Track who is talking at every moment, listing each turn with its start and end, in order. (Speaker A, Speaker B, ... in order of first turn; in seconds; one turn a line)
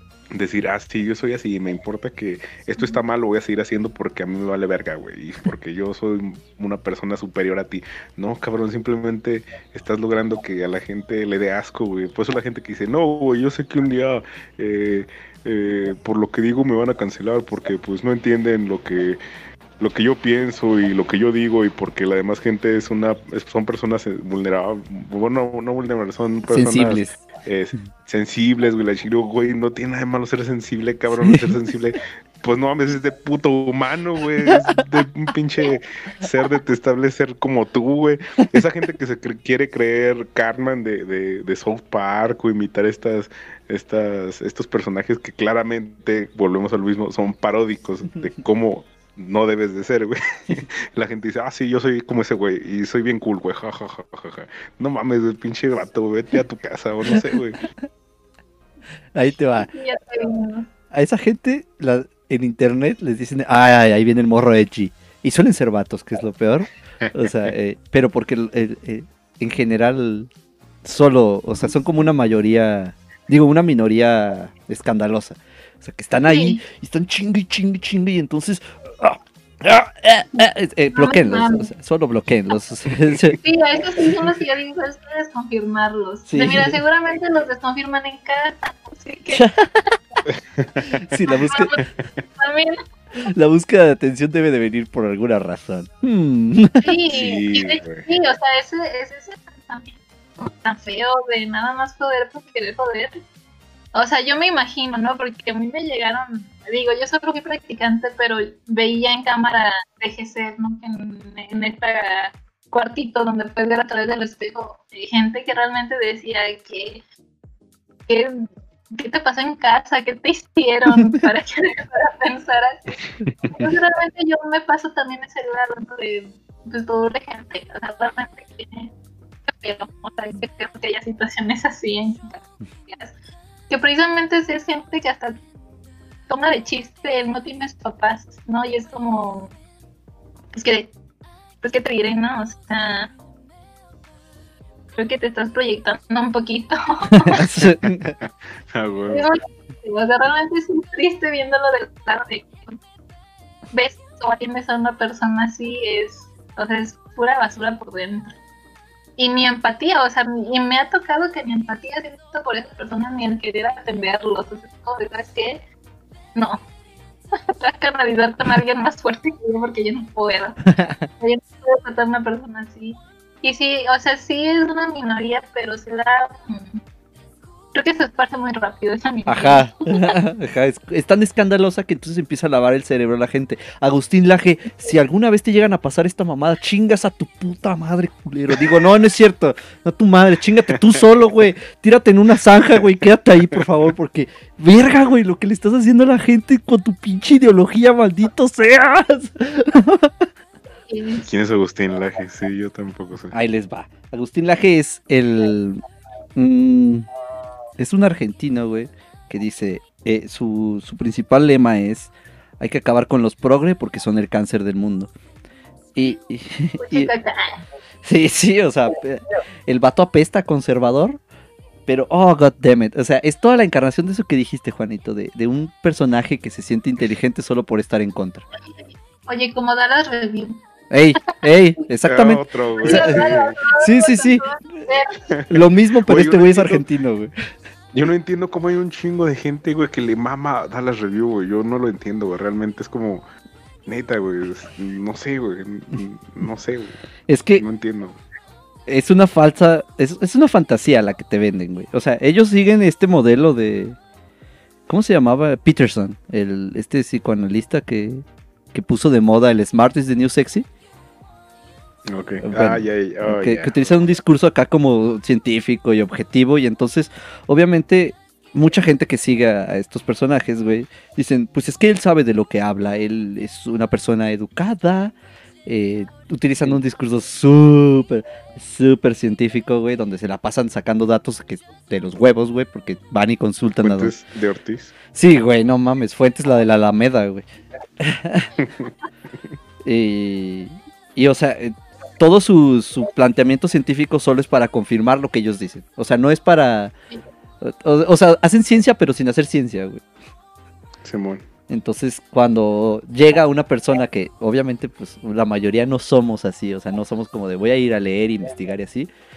Speaker A: 0.3-19.2
Speaker A: 19.8-57.6
Speaker B: 26.5-27.2
Speaker B: 31.2-31.6
Speaker B: 59.1-59.7
Speaker C: 59.6-60.7
Speaker B: 60.9-70.3
Speaker B: 70.8-83.4
Speaker C: 76.3-76.6
Speaker C: 81.0-81.7
Speaker C: 83.4-89.5
Speaker B: 86.3-86.8
Speaker B: 89.3-90.0
Speaker A: 90.5-91.0
Speaker B: 90.9-91.8
Speaker C: 91.5-91.9
Speaker C: 92.4-92.8
Speaker B: 93.3-96.9
Speaker C: 96.8-103.2
Speaker A: 97.1-98.1
Speaker C: 103.9-117.0
Speaker C: 118.1-122.9
Speaker A: 123.2-123.7
Speaker C: 123.6-128.9
Speaker C: 129.5-133.2
Speaker C: 133.7-135.4
Speaker C: 136.3-139.5
Speaker C: 140.5-140.9
Speaker C: 141.6-143.1
Speaker C: 144.9-147.4
Speaker B: 147.1-148.2
Speaker A: 148.7-149.2
Speaker C: 149.1-152.8
Speaker C: 153.7-158.4
Speaker C: 159.2-165.7
Speaker C: 166.3-166.7
Speaker C: 167.3-176.8
Speaker B: 170.7-171.1
Speaker C: 177.7-180.1
Speaker B: 179.3-200.3
Speaker C: 200.9-201.3
Speaker A: 201.3-203.3
Speaker B: 203.3-205.8
Speaker B: 206.3-207.1
Speaker B: 207.8-215.1
Speaker B: 215.9-217.1
Speaker C: 216.8-217.6
Speaker B: 218.0-221.2
Speaker B: 221.9-228.4
Speaker C: 229.3-230.6
Speaker B: 230.9-234.9
Speaker A: 232.0-233.6
Speaker C: 232.8-235.2
Speaker A: 235.3-236.8
Speaker B: 235.5-237.3
Speaker A: 237.9-243.2
Speaker A: 243.9-247.0
Speaker B: 247.3-247.7
Speaker A: 247.6-248.2
Speaker B: 248.9-254.0
Speaker B: 254.9-260.7
Speaker A: 262.1-264.1
Speaker B: 262.4-284.1
Speaker A: 283.8-284.9
Speaker B: 285.1-287.4
Speaker B: 288.0-288.5
Speaker A: 288.6-288.9
Speaker B: 289.8-296.9
Speaker B: 297.6-300.1
Speaker A: 301.0-301.4
Speaker B: 301.7-309.1